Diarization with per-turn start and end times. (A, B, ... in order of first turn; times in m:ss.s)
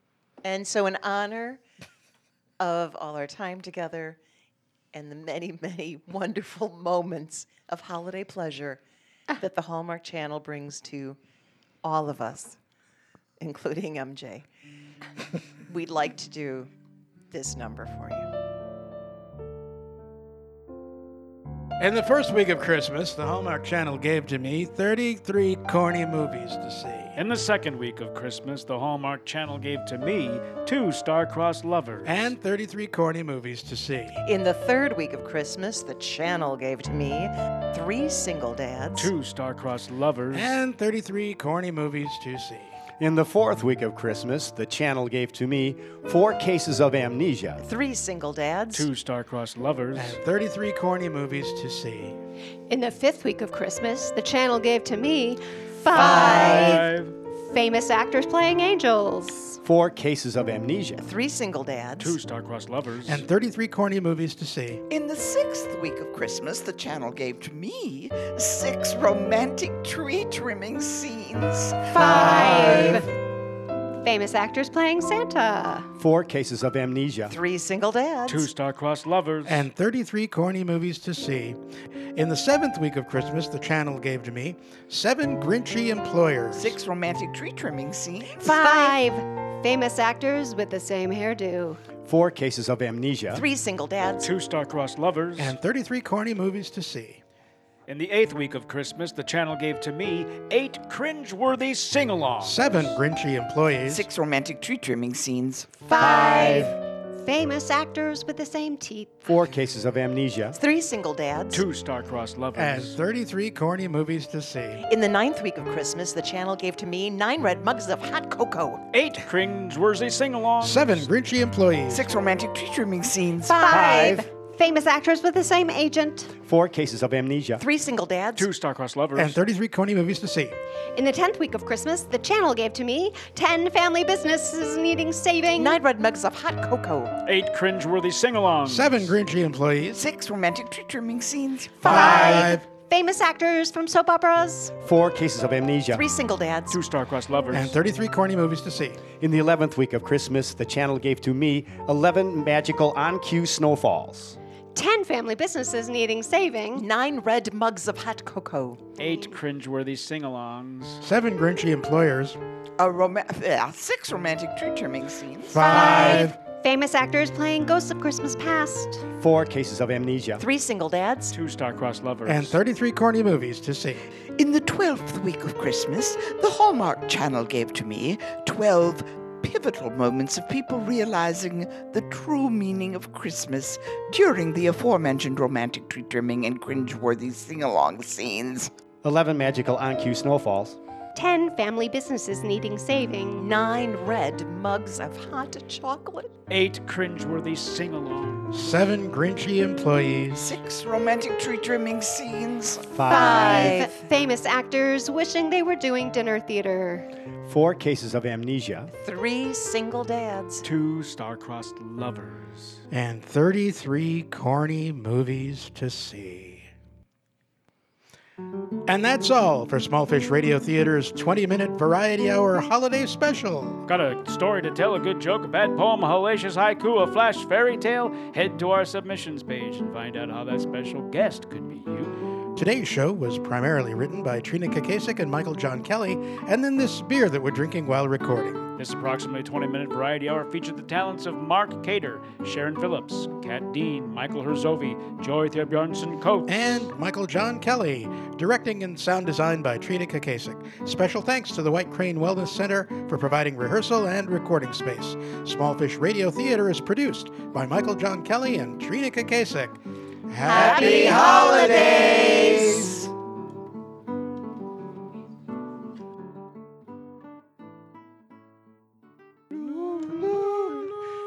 0:00.4-0:01.6 A
0:02.6-0:04.2 A
0:04.9-0:11.2 A
0:11.8-0:12.6 A
0:13.4-0:14.4 A
0:15.7-0:16.7 A
0:17.3-0:18.3 A
0:21.8-0:27.2 B
0:27.2-0:32.3 C
0:32.0-0:34.2 B
0:34.2-0:39.1 A
0:39.0-0:40.6 C
0:40.3-0:42.8 B
0:43.0-0:47.6 D
0:47.6-0:48.9 A
0:48.7-0:50.2 C
0:49.9-0:52.2 B
0:52.7-0:56.8 E
0:55.9-0:56.8 A
0:56.0-0:57.1 C
0:57.3-0:59.6 E
0:59.6-1:01.0 D
1:01.0-1:02.2 A
1:02.0-1:03.2 C
1:03.0-1:04.8 B
1:04.9-1:12.9 F
1:11.9-1:13.1 E
1:12.0-1:13.0 B
1:12.1-1:13.0 A
1:14.0-1:15.8 E
1:16.0-1:17.3 D
1:17.3-1:18.5 A
1:18.3-1:19.7 C
1:19.4-1:21.6 B
1:22.2-1:26.8 B
1:26.5-1:29.0 F
1:28.4-1:31.8 E
1:32.0-1:33.4 D
1:33.3-1:34.3 A
1:34.2-1:35.6 C
1:35.4-1:37.2 B
1:37.9-1:42.7 C
1:42.4-1:44.0 B
1:43.9-1:45.8 F
1:45.9-1:49.3 E
1:45.9-1:46.7 D
1:49.2-1:50.6 D
1:50.5-1:51.6 A
1:51.5-1:53.0 C
1:52.6-1:54.8 B
1:54.9-1:58.8 A
1:58.9-2:01.1 C
2:00.6-2:02.1 B
2:01.9-2:03.7 F
2:03.4-2:06.3 E
2:03.6-2:04.3 D
2:06.4-2:07.6 D
2:07.6-2:08.5 A
2:08.4-2:09.4 C
2:09.1-2:10.6 B
2:10.9-2:15.8 E
2:15.6-2:17.1 A
2:17.2-2:19.1 C
2:18.6-2:20.0 B
2:19.9-2:22.6 F
2:21.8-2:22.7 B
2:21.8-2:24.7 E
2:24.8-2:26.0 D
2:25.9-2:26.8 A
2:26.7-2:27.8 C
2:27.5-2:29.0 B
2:29.2-2:34.4 D
2:34.7-2:36.8 E
2:36.7-2:38.9 A
2:39.0-2:41.0 C
2:41.0-2:42.4 B
2:42.8-2:45.8 F
2:45.5-2:46.4 B
2:45.6-2:49.0 E
2:49.2-2:50.4 D
2:50.4-2:51.3 A
2:51.3-2:52.6 C
2:52.2-2:54.1 B
2:54.4-3:08.7 F
3:09.0-3:10.8 D
3:11.1-3:13.5 E
3:13.4-3:16.3 A
3:16.5-3:18.5 C
3:18.5-3:20.5 B
3:20.3-3:23.9 F
3:22.9-3:23.8 D
3:23.1-3:27.1 E
3:23.4-3:23.9 A
3:27.4-3:28.9 D
3:28.9-3:30.6 A
3:30.6-3:32.8 C
3:32.9-3:36.7 B
3:38.9-3:43.8 B
3:43.9-3:52.1 C
3:52.5-3:58.7 B
3:58.8-4:06.8 C
4:06.5-4:21.4 B
4:20.4-4:22.8 A
4:20.6-4:22.0 E
4:20.6-4:23.0 F
4:30.0-4:30.8 F